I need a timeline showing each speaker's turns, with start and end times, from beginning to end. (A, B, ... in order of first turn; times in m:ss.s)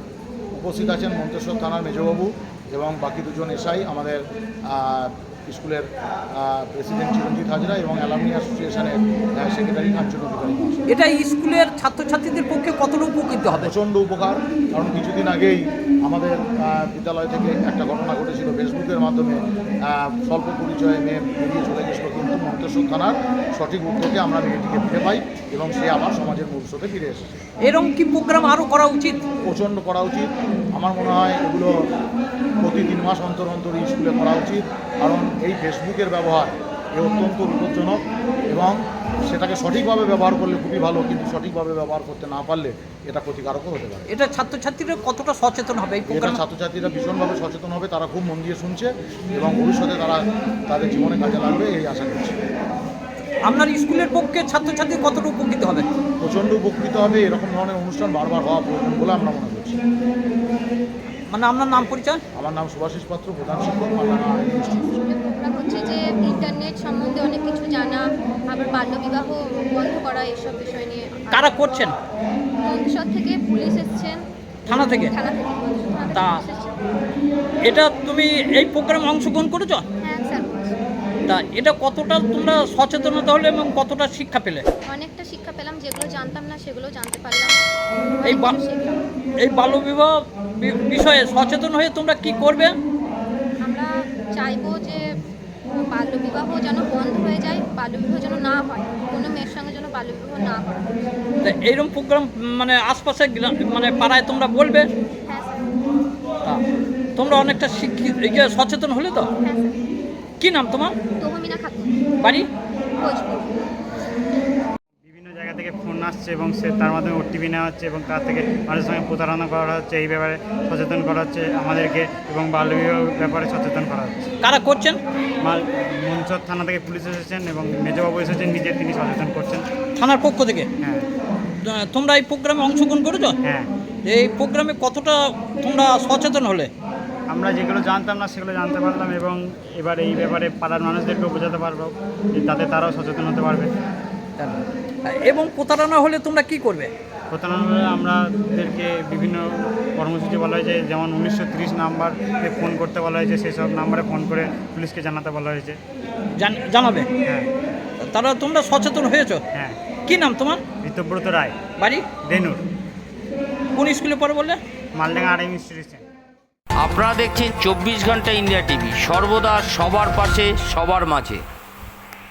0:00.5-0:10.8 A
0:10.9-0:13.7 B
0:13.5-0:27.4 A
0:27.6-0:29.2 B
0:29.4-0:31.7 A
0:32.6-0:38.7 A
0:39.2-0:44.1 A
0:44.1-0:46.4 B
0:46.1-0:52.4 A
0:53.5-0:55.8 B
0:56.2-0:59.8 A
1:01.3-1:02.2 B
1:02.3-1:04.9 A
1:04.6-1:11.6 C
1:11.3-1:11.9 B
1:12.6-1:16.8 C
1:14.7-1:15.1 B
1:16.1-1:16.4 B
1:17.6-1:19.8 B
1:20.0-1:20.7 C
1:21.3-1:24.6 B
1:24.8-1:27.6 C
1:28.2-1:29.0 C
1:28.2-1:28.5 B
1:29.4-1:32.7 B
1:33.6-1:35.0 C
1:35.8-1:41.0 C
1:41.4-1:44.9 B
1:45.3-1:45.8 C
1:47.2-1:49.3 B
1:49.4-1:49.8 C
1:50.4-1:50.9 B
1:51.2-1:52.1 C
1:53.0-1:53.5 C
1:55.0-2:04.3 D
2:04.4-2:05.0 B
2:05.4-2:09.7 D
2:10.0-2:10.7 B
2:10.8-2:11.1 D
2:11.6-2:13.3 B
2:13.4-2:13.7 D
2:14.0-2:16.7 B
2:17.3-2:23.7 D
2:24.4-2:26.9 B
2:27.3-2:35.8 D
2:36.4-2:37.1 B
2:37.2-2:37.5 D
2:38.1-2:39.4 B
2:40.1-2:40.6 B
2:40.8-2:41.6 D
2:41.8-2:42.0 B
2:42.2-2:42.6 D
2:43.7-2:44.6 B
2:44.9-2:46.0 D
2:46.8-2:51.4 E